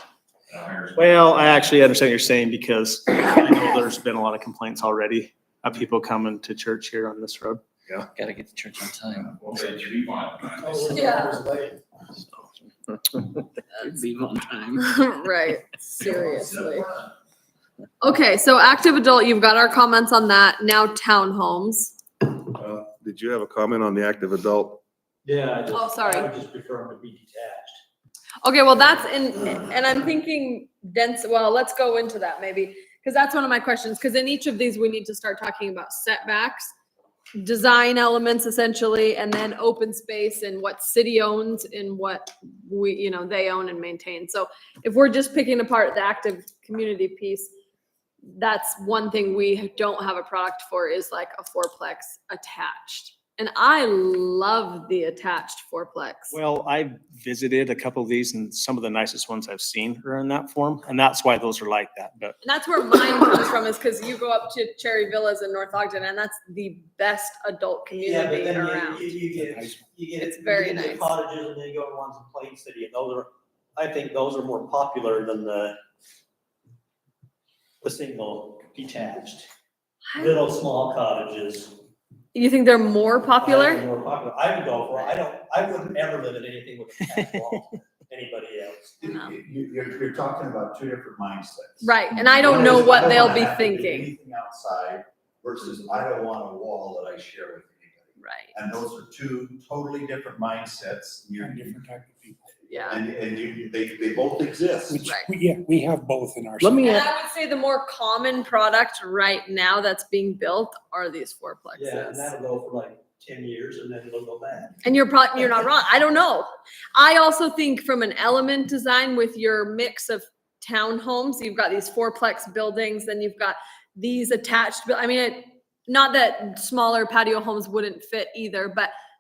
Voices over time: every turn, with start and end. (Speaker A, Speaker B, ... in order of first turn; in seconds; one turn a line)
Speaker A: 0.5-2.2
Speaker B: 0.9-2.5
Speaker C: 1.1-1.9
Speaker C: 2.5-7.6
Speaker D: 8.2-9.6
Speaker A: 9.3-10.9
Speaker B: 10.6-11.8
Speaker E: 10.9-11.4
Speaker D: 12.1-12.5
Speaker D: 13.0-15.1
Speaker E: 14.8-16.9
Speaker E: 18.0-21.9
Speaker F: 22.5-24.8
Speaker B: 25.2-27.8
Speaker E: 25.7-26.3
Speaker E: 28.4-36.7
Speaker E: 37.4-47.5
Speaker E: 48.3-56.4
Speaker C: 56.3-62.4
Speaker E: 62.4-69.2
Speaker B: 68.0-75.8
Speaker G: 69.3-69.8
Speaker E: 70.2-71.2
Speaker B: 77.8-79.5
Speaker E: 80.1-80.4
Speaker B: 80.2-81.7
Speaker E: 82.3-83.9
Speaker B: 83.3-89.0
Speaker C: 87.1-87.6
Speaker H: 89.0-101.8
Speaker E: 89.0-89.3
Speaker E: 91.8-94.1
Speaker B: 92.4-93.2
Speaker E: 98.2-98.5
Speaker G: 101.4-102.5
Speaker E: 102.7-103.0
Speaker H: 102.8-105.0
Speaker B: 104.5-104.8
Speaker G: 104.9-107.1
Speaker E: 105.0-105.3
Speaker B: 106.6-106.9
Speaker E: 106.8-112.3
Speaker B: 111.8-114.8
Speaker E: 114.8-128.9